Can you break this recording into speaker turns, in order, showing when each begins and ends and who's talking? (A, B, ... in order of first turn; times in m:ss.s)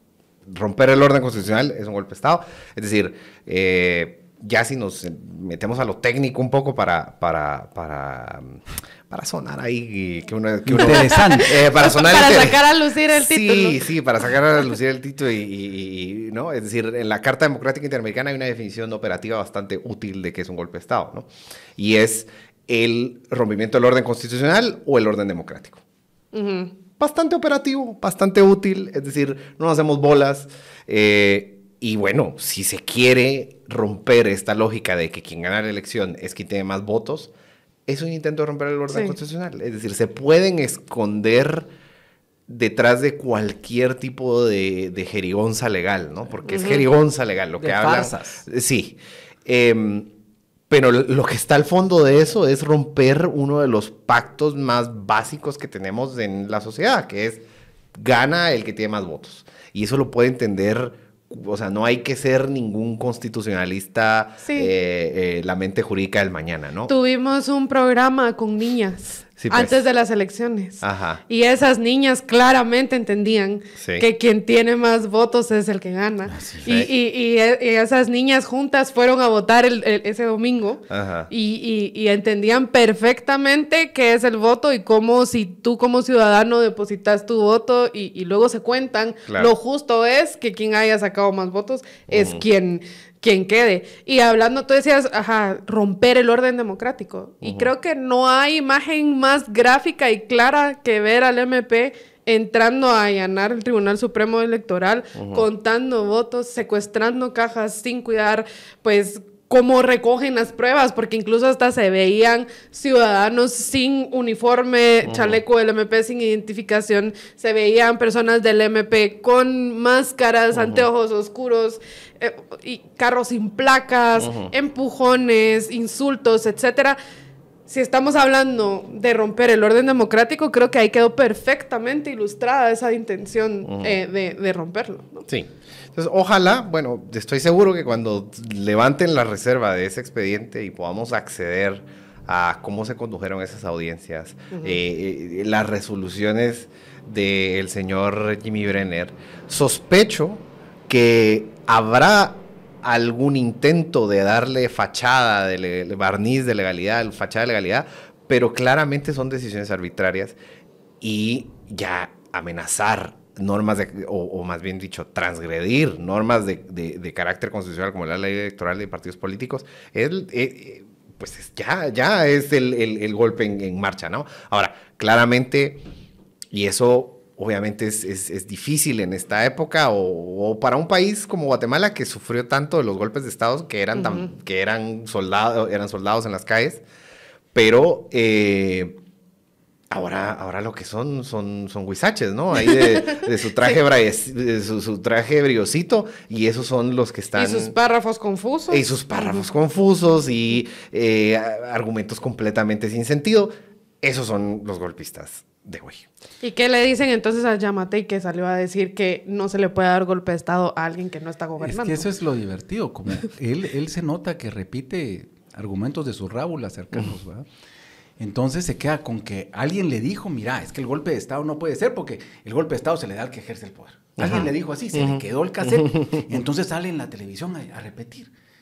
0:00.5-0:25.8 A
0:10.6-0:11.6 B
0:10.9-0:13.8 C
0:26.3-0:26.7 C
0:27.0-0:37.3 A
0:37.9-0:41.7 A
0:38.9-0:39.2 C
0:42.5-0:50.1 A
0:46.5-0:46.8 C
0:47.6-0:48.4 B
0:50.7-0:57.4 A
0:58.0-1:06.9 A
1:04.4-1:04.7 C
1:06.9-2:07.0 C
1:09.4-1:09.8 A
1:10.8-1:11.2 A
1:13.8-1:14.0 A
1:16.3-1:16.6 B
1:16.6-1:16.9 A
1:20.9-1:21.3 A
1:32.1-1:32.4 A
1:37.4-1:37.7 A
1:45.2-1:45.4 A
1:55.1-1:55.4 A
2:00.5-2:00.8 A
2:07.7-2:15.3 C
2:13.6-2:14.0 A
2:15.3-2:40.4 A
2:24.5-2:24.8 C
2:41.0-2:55.8 A
2:56.5-3:06.8 A
3:04.0-3:04.3 C
3:07.5-3:09.0 A
3:09.9-3:17.7 A
3:12.5-3:13.8 C
3:17.4-3:19.4 C
3:18.7-3:26.1 A
3:26.4-3:32.1 C
3:31.6-3:37.5 B
3:38.2-3:48.3 B
3:44.2-3:45.2 A
3:45.8-3:46.1 A